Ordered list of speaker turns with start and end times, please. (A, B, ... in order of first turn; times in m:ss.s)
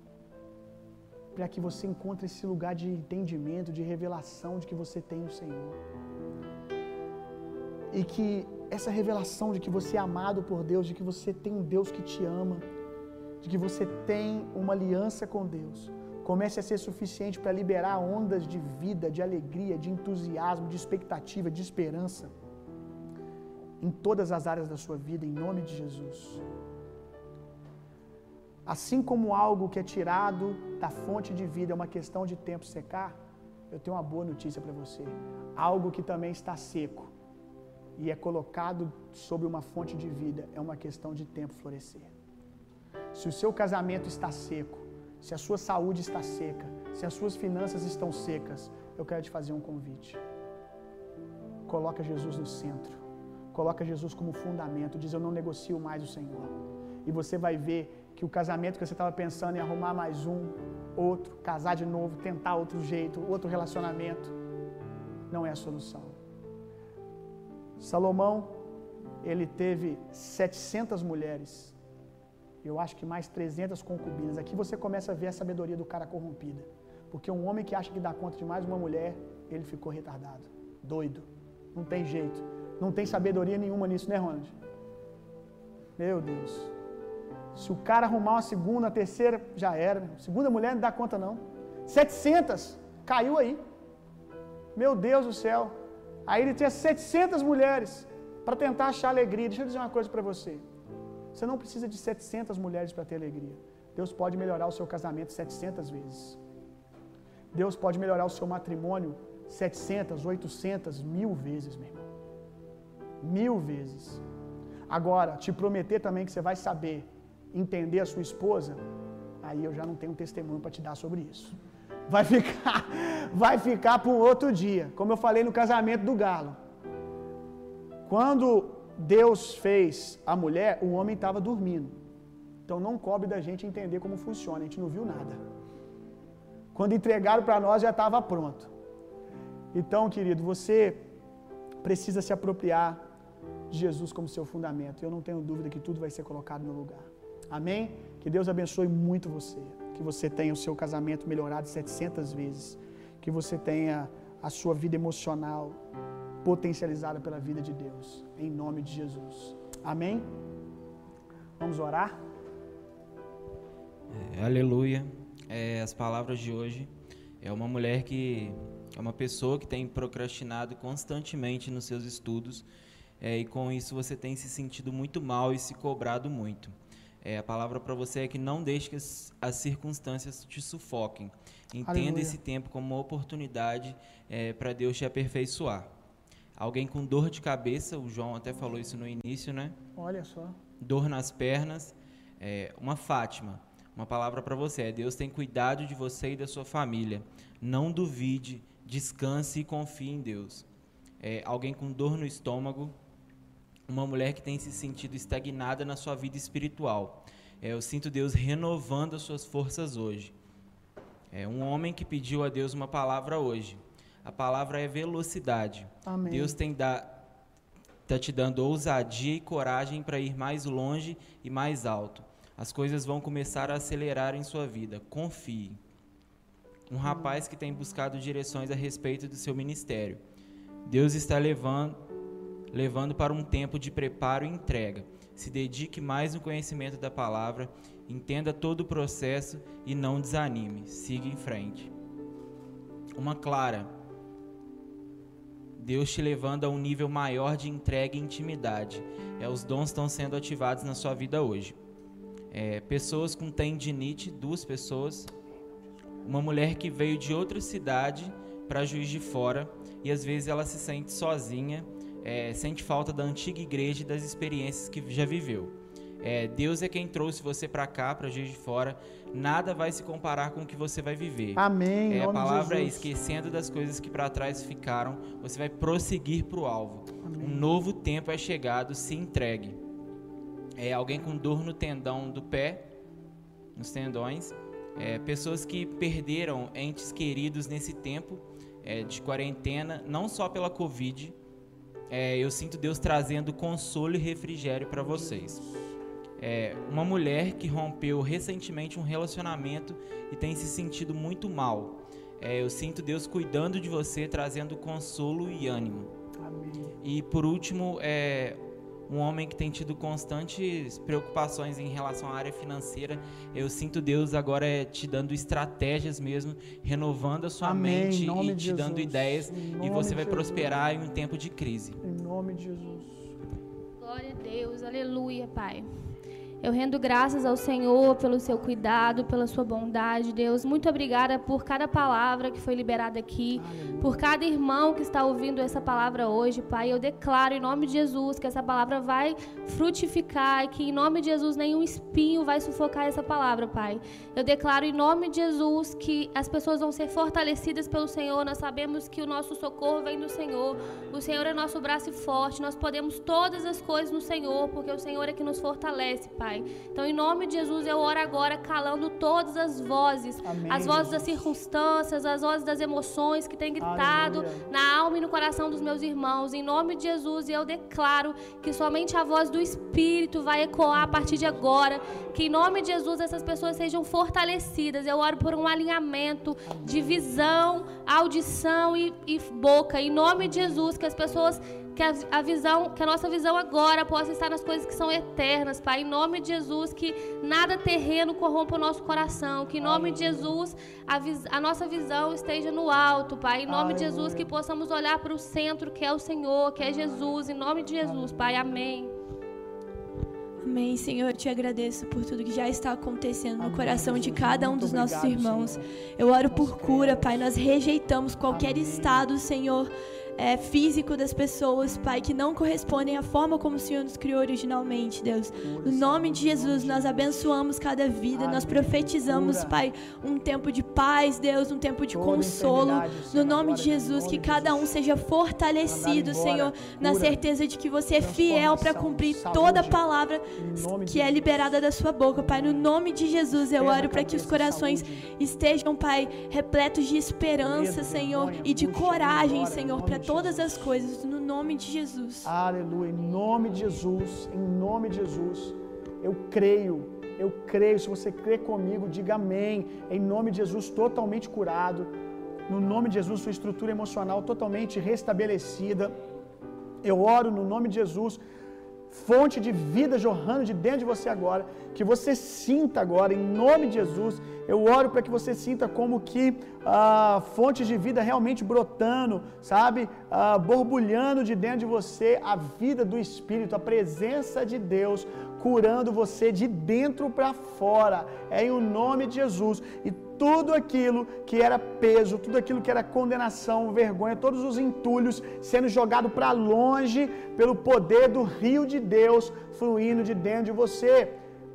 0:01.3-0:05.8 A
0:07.9-0:12.7 A
0:13.4-0:22.3 A
0:23.8-0:26.4 A
0:28.6-0:33.2 A
0:33.7-0:37.1 A
0:38.0-0:42.1 A
0:43.1-0:50.2 A
0:51.6-1:04.3 A
1:05.3-1:06.2 A
1:07.8-1:08.6 A
1:09.2-1:11.7 A
1:12.6-1:24.5 A
1:26.0-1:26.7 A
1:27.5-1:33.6 A
1:34.7-1:35.7 A
1:36.2-1:40.6 A
1:41.3-1:46.4 A
1:47.5-1:52.0 A
1:53.2-1:54.2 A
1:54.9-1:58.8 A
1:59.4-2:01.6 A
2:02.1-2:06.6 A
2:08.0-2:12.0 A
2:12.6-2:15.4 A
2:16.7-2:18.7 A
2:19.7-2:21.0 A
2:21.8-2:23.0 A
2:23.7-2:35.8 A
2:36.4-2:40.3 A
2:41.6-2:42.2 A
2:44.1-2:52.6 B
2:53.2-3:05.9 B
3:01.8-3:02.4 A
3:06.6-3:09.8 B
3:10.0-3:10.6 A
3:10.8-3:20.6 B
3:21.2-3:22.9 B
3:23.9-3:30.3 B
3:31.3-3:37.2 B
3:36.0-3:36.6 A
3:38.1-3:45.8 B
3:46.9-3:50.2 B
3:50.8-3:52.0 B
3:52.7-4:01.9 B
4:03.2-4:03.9 B
4:05.8-4:11.8 B
4:12.5-4:15.3 B
4:16.2-4:39.8 B
4:31.6-4:33.1 A
4:37.2-4:37.7 A
4:40.8-4:42.8 B
4:43.8-4:51.4 B
4:52.1-4:55.6 B
4:55.2-4:55.6 A
4:56.4-5:06.1 B
5:06.4-5:06.9 A
5:07.0-5:22.0 B
5:17.6-5:20.7 A
5:22.0-5:23.3 A
5:24.0-5:25.8 C
5:26.6-6:39.1 C
5:33.5-5:34.2 A
6:00.4-6:01.5 A
6:03.8-6:04.7 A
6:10.9-6:11.6 A
6:16.6-6:17.3 A
6:20.4-6:20.8 A
6:29.8-6:30.6 A
6:33.7-6:34.5 A
6:38.0-6:38.4 A
6:40.6-7:22.5 D
6:43.6-6:45.9 A
6:46.5-6:47.5 A
6:48.4-6:49.3 A
6:55.6-6:57.6 A
6:58.3-6:59.8 A
7:02.1-7:04.9 A
7:05.8-7:07.4 A
7:08.2-7:10.0 A
7:10.5-7:12.9 A
7:13.5-7:15.3 A
7:17.6-7:21.0 A
7:22.4-7:32.1 A
7:32.7-7:36.2 A
7:37.0-7:38.4 A
7:39.1-8:11.4 A